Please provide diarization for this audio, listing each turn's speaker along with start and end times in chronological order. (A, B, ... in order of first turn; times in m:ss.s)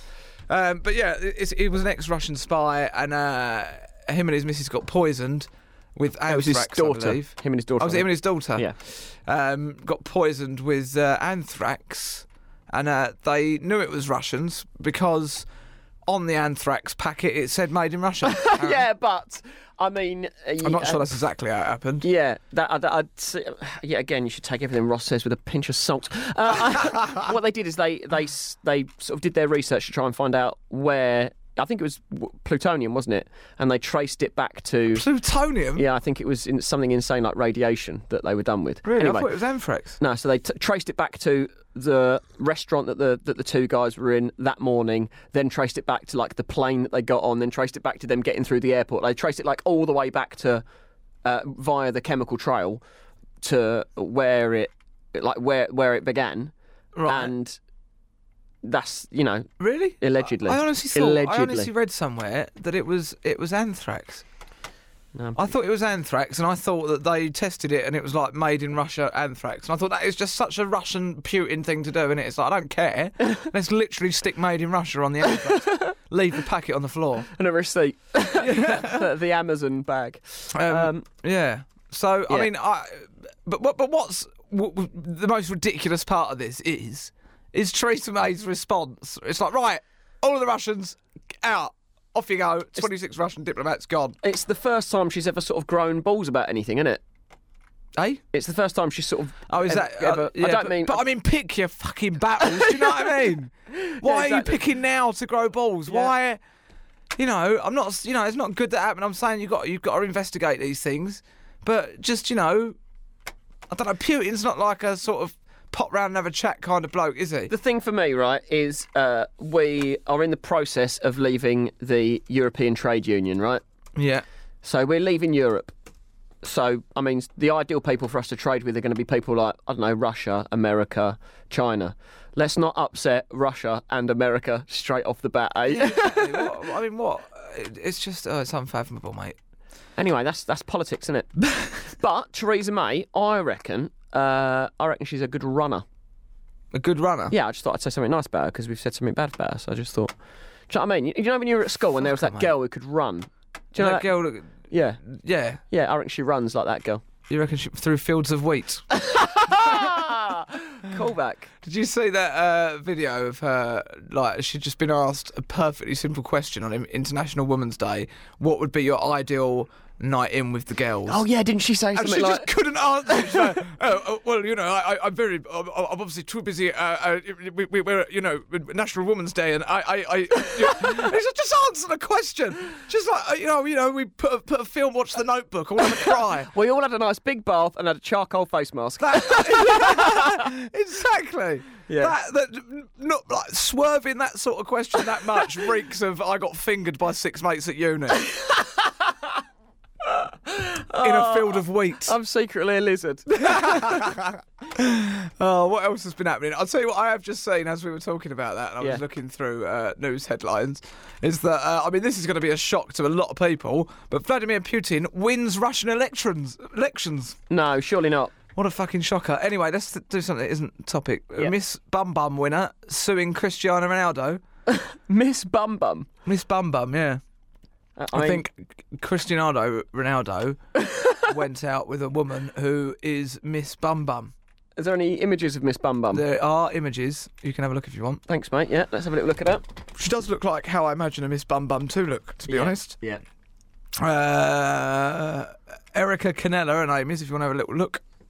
0:00.5-0:15.5 A
0:06.3-0:08.7 B
0:16.1-0:18.8 A
0:18.2-0:21.2 B
0:20.6-0:22.0 A
0:22.0-0:35.0 B
0:34.9-0:35.8 A
0:35.7-0:39.3 B
0:38.8-0:40.0 A
0:40.0-0:50.6 B
0:51.2-0:52.8 B
0:53.4-0:56.5 B
0:56.9-0:57.3 A
0:57.0-0:57.6 B
0:58.6-1:01.7 B
0:59.6-1:04.2 A
1:05.1-1:05.5 B
1:05.4-1:17.3 A
1:15.2-1:15.9 B
1:17.3-1:21.0 B
1:18.4-1:19.1 A
1:20.5-1:34.2 A
1:34.2-1:37.0 B
1:38.0-1:38.2 A
1:38.3-1:41.0 B
1:39.5-1:46.4 A
1:42.4-1:44.6 B
1:45.9-1:46.1 B
1:47.2-1:52.8 A
1:53.7-1:57.5 A
1:57.5-2:03.6 B
2:03.9-2:04.2 A
2:04.6-2:05.7 B
2:06.4-2:16.5 B
2:15.7-2:19.4 A
2:20.0-2:25.8 B
2:26.7-2:27.3 A
2:27.3-2:30.1 B
2:30.7-2:35.0 B
2:32.0-2:32.5 A
2:33.8-2:35.6 A
2:35.7-2:37.0 B
2:37.3-2:38.9 A
2:38.9-2:41.5 B
2:39.4-2:40.0 A
2:41.6-2:51.2 A
2:51.0-2:52.5 B
2:51.9-3:06.5 A
2:53.0-2:53.6 B
3:06.0-3:10.5 B
3:09.0-3:18.3 A
3:11.9-3:12.1 B
3:18.2-3:19.4 B
3:20.0-3:24.1 B
3:21.0-3:22.2 A
3:23.4-3:37.4 A
3:37.5-3:38.3 B
3:38.5-3:44.4 A
3:44.7-3:46.1 B
3:46.2-3:47.2 A
3:48.0-3:48.4 B
3:48.1-3:50.6 A
3:50.8-3:51.3 B
3:51.2-3:54.3 A
3:54.8-3:56.2 B
3:56.1-3:58.2 A
3:58.3-3:59.6 B
4:00.0-4:03.0 A
4:02.5-4:03.2 B
4:04.0-4:08.0 A